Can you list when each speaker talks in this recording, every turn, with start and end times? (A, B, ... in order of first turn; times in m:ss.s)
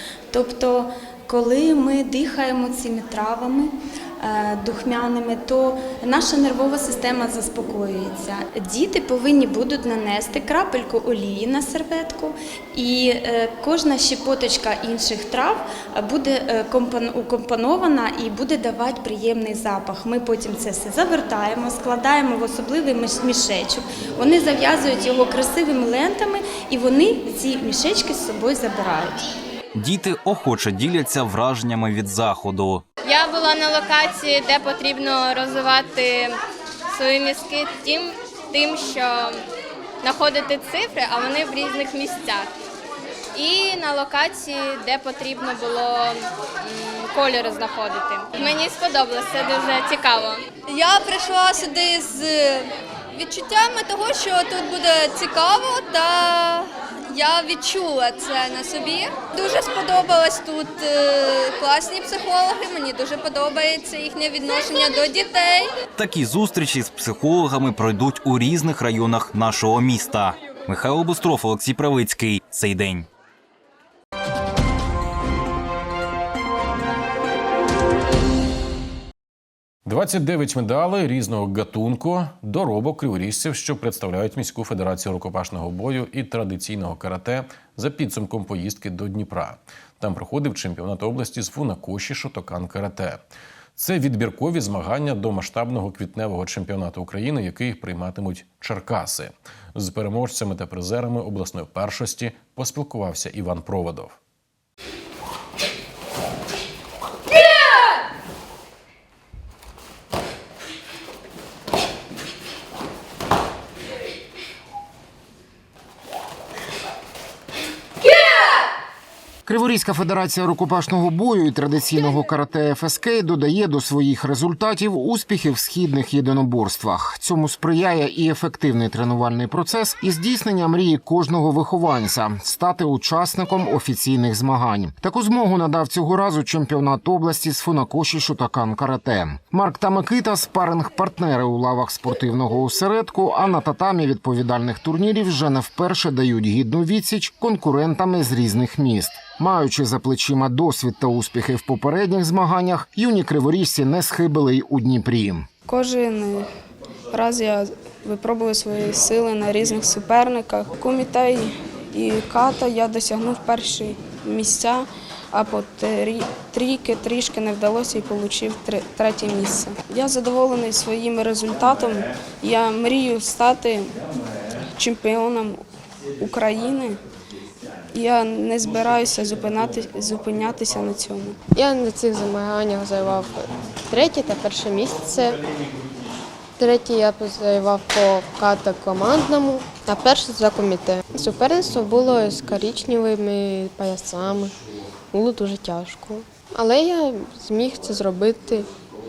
0:00.3-0:29.2 A
0:29.7-0:32.8 B
0:33.0-0:36.4 C
0:36.9-0:39.4 C
0:40.0-0:42.5 C
0:43.3-0:50.5 C
0:50.6-1:05.7 D
1:06.0-1:13.1 B
1:19.8-1:33.2 E
1:33.8-1:44.2 E
1:59.4-2:35.5 F
2:35.7-2:36.5 G
2:37.1-2:54.0 G
2:54.7-2:55.6 G
2:56.2-2:57.0 G
2:57.9-3:01.4 G
3:01.5-3:05.4 H
3:06.6-3:14.6 H
3:15.1-3:18.7 H